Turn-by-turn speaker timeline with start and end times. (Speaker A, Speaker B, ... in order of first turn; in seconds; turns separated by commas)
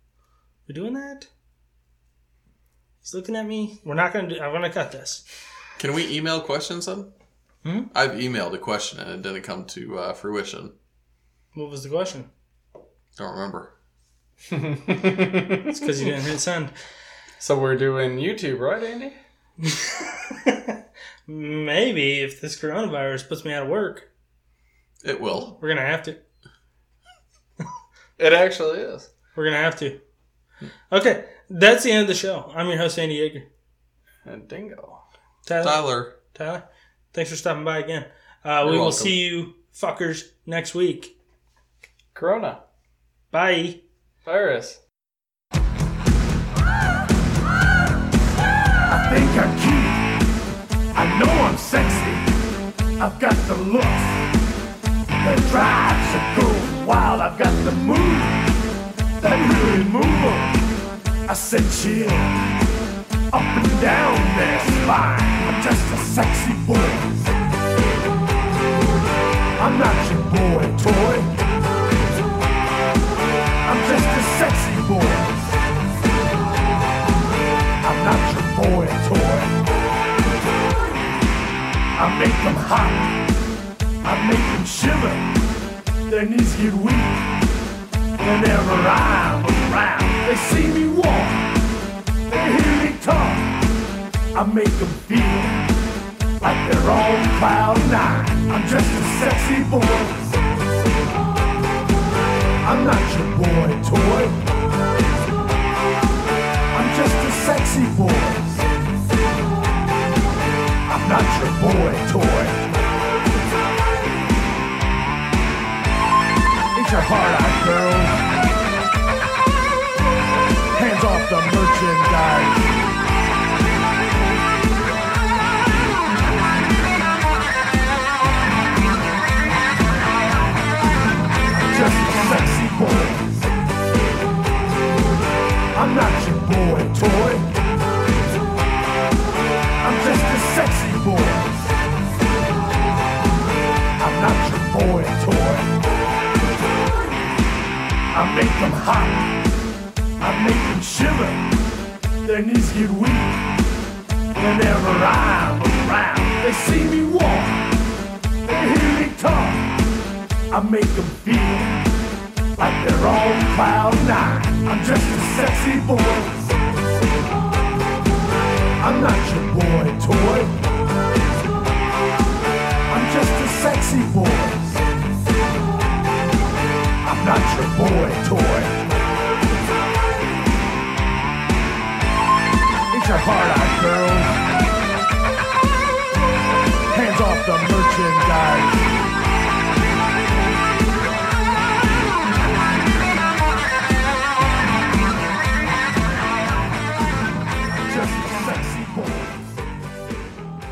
Speaker A: 0.7-1.3, Speaker A: 3.0-5.2, Speaker B: 5.8-7.1, Speaker A: 7.6-7.9, Speaker B: 7.9-10.7, Speaker A: 11.5-12.3, Speaker B: 13.2-13.7, Speaker C: 14.5-15.8, Speaker A: 15.6-16.7, Speaker C: 17.4-19.2, Speaker A: 19.6-24.1, Speaker B: 25.0-25.6, Speaker A: 25.6-26.2, Speaker C: 28.2-29.1, Speaker A: 29.4-30.0, Speaker A: 30.9-33.5, Speaker C: 34.2-35.0, Speaker A: 35.5-41.1, Speaker B: 35.6-36.1, Speaker B: 38.6-39.2, Speaker C: 42.1-42.6, Speaker A: 43.3-43.8, Speaker C: 44.2-44.8, Speaker D: 48.9-50.1, Speaker D: 51.0-52.3, Speaker D: 53.0-54.3, Speaker D: 55.2-58.5, Speaker D: 59.2-60.5, Speaker D: 61.3-62.4, Speaker D: 63.3-67.3, Speaker D: 69.6-71.4, Speaker D: 73.7-75.6, Speaker D: 77.8-79.6, Speaker D: 82.0-83.2, Speaker D: 84.0-85.3, Speaker D: 86.1-87.3, Speaker D: 88.2-91.5, Speaker D: 92.3-93.6, Speaker D: 94.3-95.7, Speaker D: 96.4-100.4, Speaker D: 102.6-104.5, Speaker D: 106.7-108.7, Speaker D: 110.9-112.6, Speaker D: 116.7-118.2, Speaker D: 120.8-122.6, Speaker D: 131.5-133.5, Speaker D: 135.8-137.6, Speaker D: 139.8-141.7, Speaker D: 144.0-145.7, Speaker D: 148.1-149.4, Speaker D: 150.2-151.5, Speaker D: 152.2-153.5, Speaker D: 154.3-157.7, Speaker D: 158.4-159.8, Speaker D: 160.5-161.8, Speaker D: 162.6-166.6, Speaker D: 168.8-170.6, Speaker D: 172.9-174.8, Speaker D: 177.0-178.8, Speaker D: 182.9-184.4, Speaker D: 186.9-188.9, Speaker D: 197.7-199.6